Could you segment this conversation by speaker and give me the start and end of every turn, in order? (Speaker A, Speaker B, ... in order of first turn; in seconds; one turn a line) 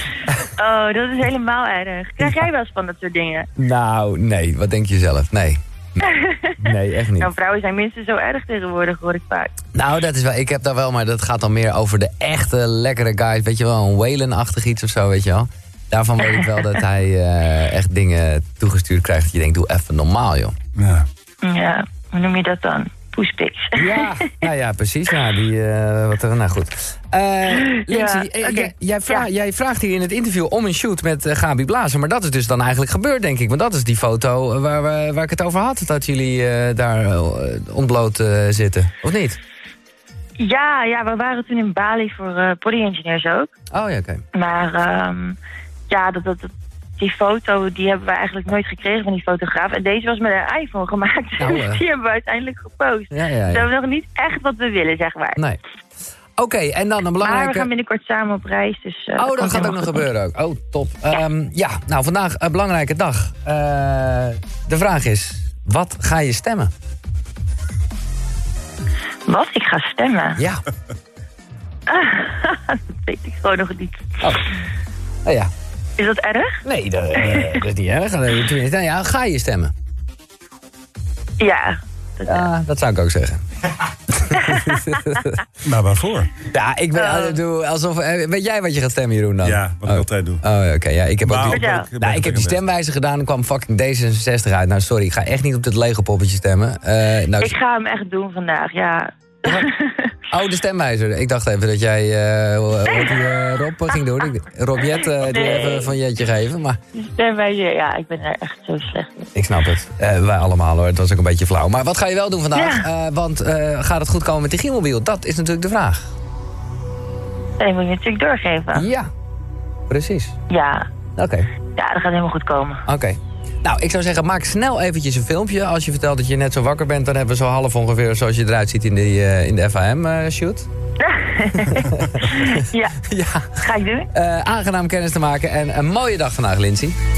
Speaker A: 0.6-3.5
Speaker B: 3.5-6.0
Speaker A: 6.0-6.6
Speaker B: 6.6-7.3
Speaker A: 7.1-9.5
Speaker B: 9.7-20.5
Speaker C: 20.7-21.1
Speaker A: 21.4-24.4
Speaker B: 23.8-39.4
Speaker A: 27.5-29.3
Speaker A: 40.4-43.5
Speaker B: 43.7-44.2
Speaker A: 44.3-45.4
Speaker A: 45.9-55.4
Speaker B: 51.4-51.8
Speaker B: 53.1-53.7
Speaker B: 56.4-57.7
Speaker A: 57.2-60.0
Speaker B: 59.2-66.7
Speaker A: 69.2-70.4
Speaker B: 70.3-70.6
Speaker A: 71.9-74.3
Speaker B: 75.2-75.5
Speaker A: 76.0-76.6
Speaker B: 76.6-79.7
Speaker A: 77.2-77.6
Speaker A: 81.4-82.5
Speaker B: 82.3-83.4
Speaker B: 84.1-85.4
Speaker A: 84.4-84.8
Speaker C: 85.6-86.4
Speaker B: 86.4-97.5
Speaker A: 86.9-87.4
Speaker C: 89.4-90.4
Speaker C: 91.2-92.6
Speaker A: 91.5-91.9
Speaker A: 97.3-100.1
Speaker B: 100.3-106.8
Speaker A: 105.2-105.9
Speaker A: 106.9-109.3
Speaker B: 109.3-116.1
Speaker A: 112.5-112.9
Speaker A: 117.6-118.9
Speaker B: 118.7-119.1
Speaker B: 119.9-120.3
Speaker A: 120.5-120.8
Speaker B: 121.2-121.5
Speaker A: 121.7-122.8
Speaker B: 122.8-130.7
Speaker A: 131.0-133.0
Speaker B: 131.7-137.0
Speaker A: 133.6-134.1